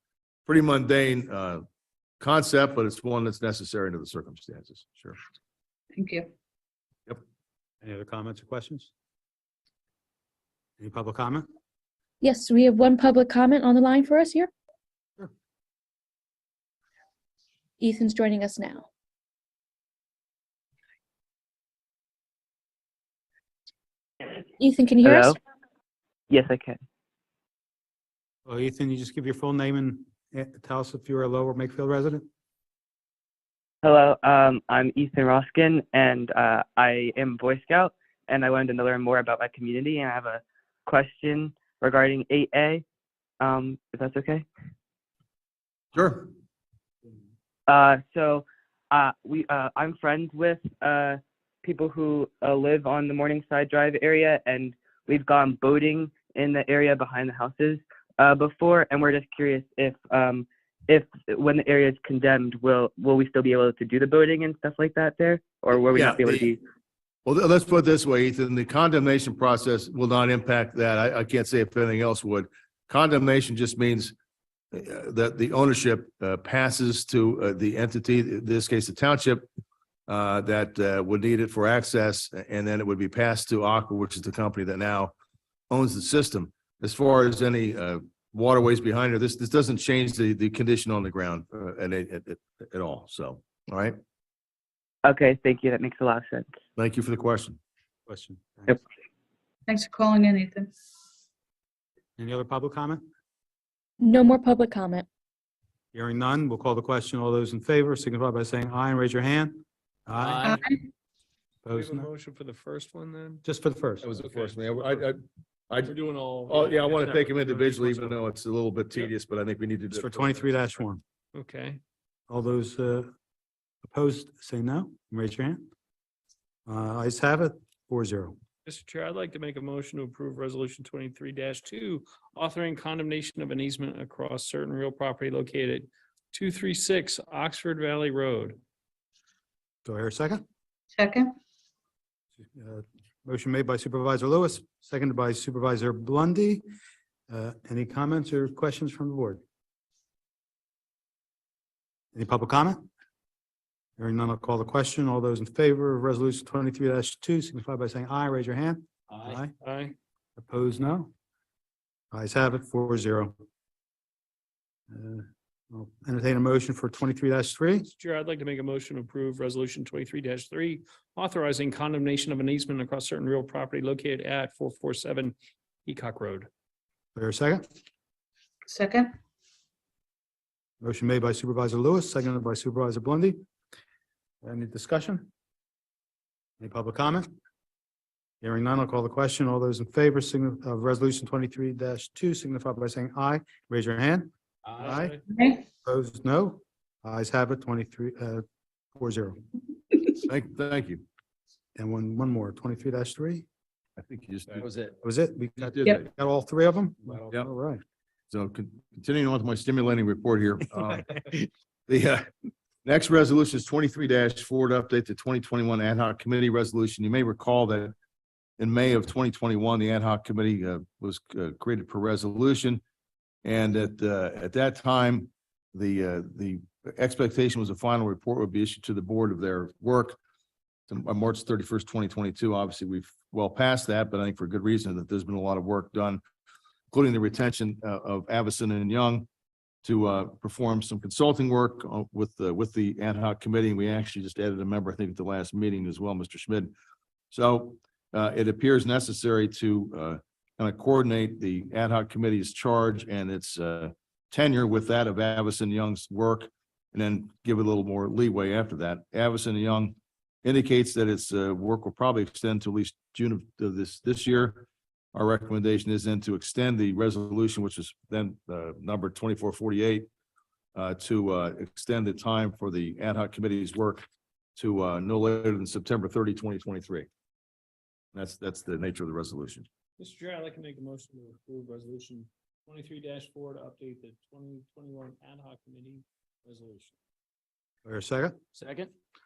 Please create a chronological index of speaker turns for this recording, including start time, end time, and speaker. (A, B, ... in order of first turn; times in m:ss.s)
0:00.5-0:01.6 A
0:02.2-0:05.2 A
0:05.9-0:06.3 B
0:07.8-0:08.9 C
0:10.8-0:11.5 C
0:12.2-0:14.5 D
0:17.8-0:18.8 D
0:24.6-0:25.4 D
0:25.0-0:25.4 E
0:26.3-0:26.8 E
0:28.5-0:32.3 C
0:33.8-0:42.8 E
0:43.4-0:44.5 E
0:45.9-0:46.3 A
0:47.7-1:06.6 E
1:05.8-1:06.5 A
1:07.3-1:14.1 A
1:14.7-1:19.5 A
1:20.1-1:25.1 A
1:25.7-1:34.0 A
1:35.0-1:36.5 E
1:36.8-1:37.6 A
1:38.1-1:38.8 C
1:39.7-1:40.7 B
1:42.2-1:43.0 C
1:44.0-1:45.1 D
1:45.9-1:50.6 C
1:50.2-1:50.6 F
1:51.6-1:52.1 C
1:51.7-1:53.4 F
1:53.4-1:54.1 C
1:54.0-1:55.2 A
1:54.2-1:55.0 F
1:55.8-1:58.2 F
1:56.5-2:00.6 A
1:59.9-2:01.0 C
2:01.3-2:01.8 F
2:02.3-2:03.1 C
2:03.8-2:05.6 C
2:06.7-2:08.4 C
2:08.7-2:18.6 F
2:19.8-2:20.4 C
2:21.0-2:21.3 B
2:22.5-2:26.6 C
2:27.3-2:29.4 C
2:32.1-2:32.9 C
2:34.0-2:39.5 C
2:39.6-2:40.0 F
2:40.4-2:41.1 C
2:42.1-2:43.3 C
2:44.9-2:47.9 C
2:47.9-2:56.5 F
2:57.2-2:57.6 C
2:58.7-2:59.1 B
3:00.8-3:03.4 C
3:04.4-3:05.3 C
3:06.6-3:07.3 C
3:08.4-3:15.2 C
3:14.8-3:15.2 F
3:15.3-3:15.6 B
3:15.7-3:18.4 C
3:19.0-3:19.4 C
3:20.2-3:21.0 A
3:21.8-3:23.5 C
3:24.0-3:24.8 A
3:25.0-3:27.8 C
3:25.6-3:26.0 A
3:28.3-3:32.3 A
3:32.8-3:37.9 A
3:38.6-3:42.8 A
3:43.4-3:50.2 A
3:50.9-3:56.2 A
3:56.9-3:59.3 A
3:59.8-4:06.7 A
4:07.3-4:30.1 A
4:30.8-4:34.1 A
4:34.6-4:37.1 A
4:38.1-4:39.7 A
4:40.0-4:47.0 F
4:47.8-4:48.4 C